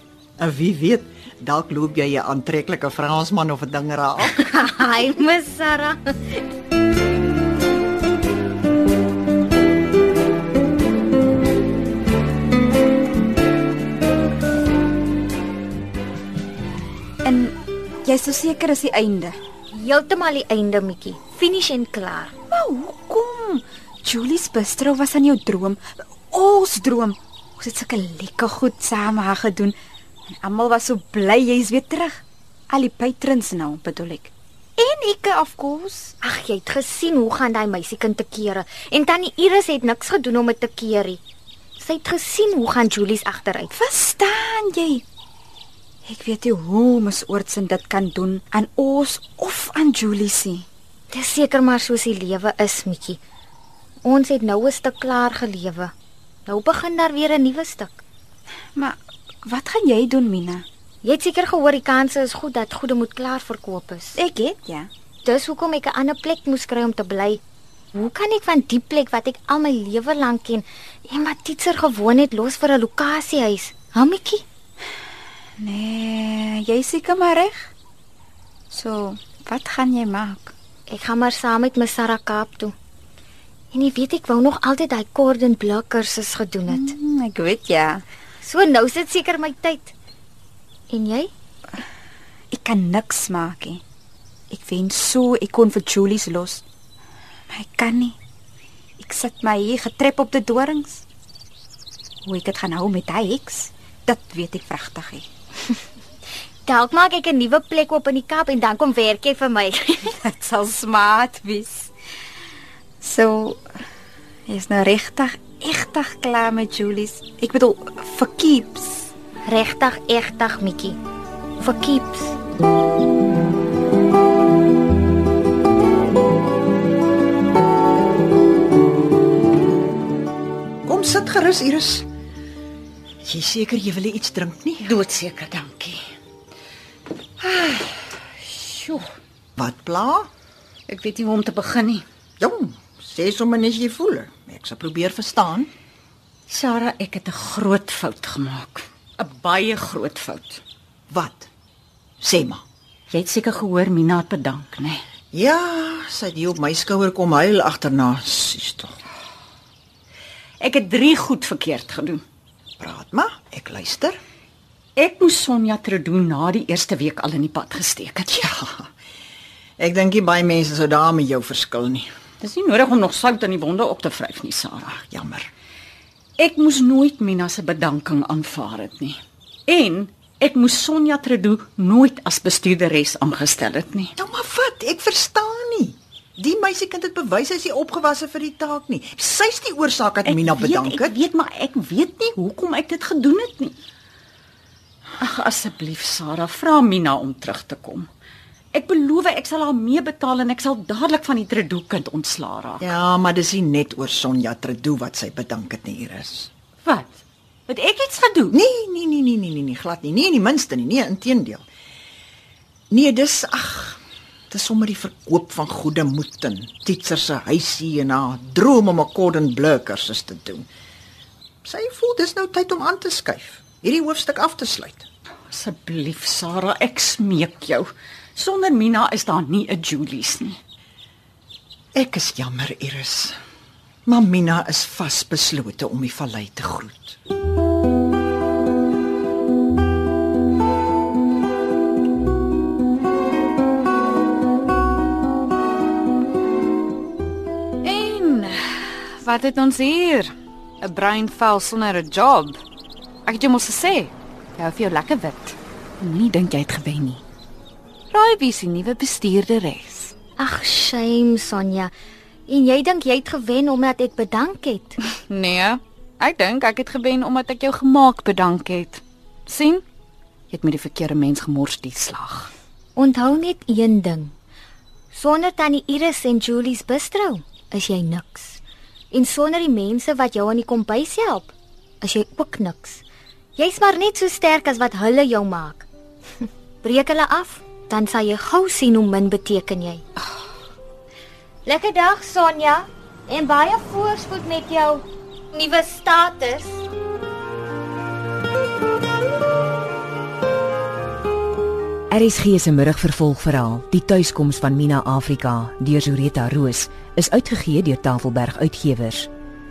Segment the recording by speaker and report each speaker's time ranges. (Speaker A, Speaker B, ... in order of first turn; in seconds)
Speaker A: 0.4-4.4, 130.8-132.1, 133.2-134.9, 139.6-140.3, 142.4-145.7, 151.1-151.5, 152.2-152.6, 155.3-159.0, 162.8-164.2, 168.3-168.9, 169.8-172.1, 175.1-175.5, 184.2-191.2, 202.8-206.5, 208.5-211.7, 212.9-214.0, 214.5-220.7, 221.6-225.1, 231.9-233.4, 234.1-237.2
Speaker B: 4.3-6.4, 19.7-22.4, 36.2-41.2, 41.8-43.7, 51.1-53.2, 54.0-55.9, 56.5-58.0, 61.0-64.2, 65.2-67.4, 67.9-74.4, 80.9-82.7, 83.7-86.9, 88.4-89.9, 90.9-91.3, 106.7-110.2, 119.5-121.0, 121.6-122.3, 260.4-261.9, 262.5-265.0, 272.9-274.3, 275.1-283.0, 283.6-285.9, 286.8-290.0, 291.7-296.8
Speaker C: 17.2-19.4, 22.5-29.7, 30.4-36.1, 43.7-45.0, 46.1-50.7, 58.8-60.6, 64.1-64.9, 75.6-77.7, 78.7-80.5, 86.7-88.0, 92.5-93.8, 94.5-96.6, 97.5-98.2, 99.0-101.0, 102.2-105.3, 110.1-111.9, 113.0-113.6, 114.5-119.1
Speaker D: 134.8-136.0, 137.4-139.1, 140.9-142.1, 146.5-150.6, 153.1-155.0, 160.6-162.2, 164.9-168.4, 172.4-175.0, 176.4-184.1, 190.2-193.8, 195.2-198.1, 198.7-202.9, 206.8-208.6, 225.5-230.6
Speaker E: 247.8-250.3, 250.8-252.6, 253.3-257.2, 258.1-260.1, 265.3-269.8, 270.5-272.5
Speaker F: 302.1-309.3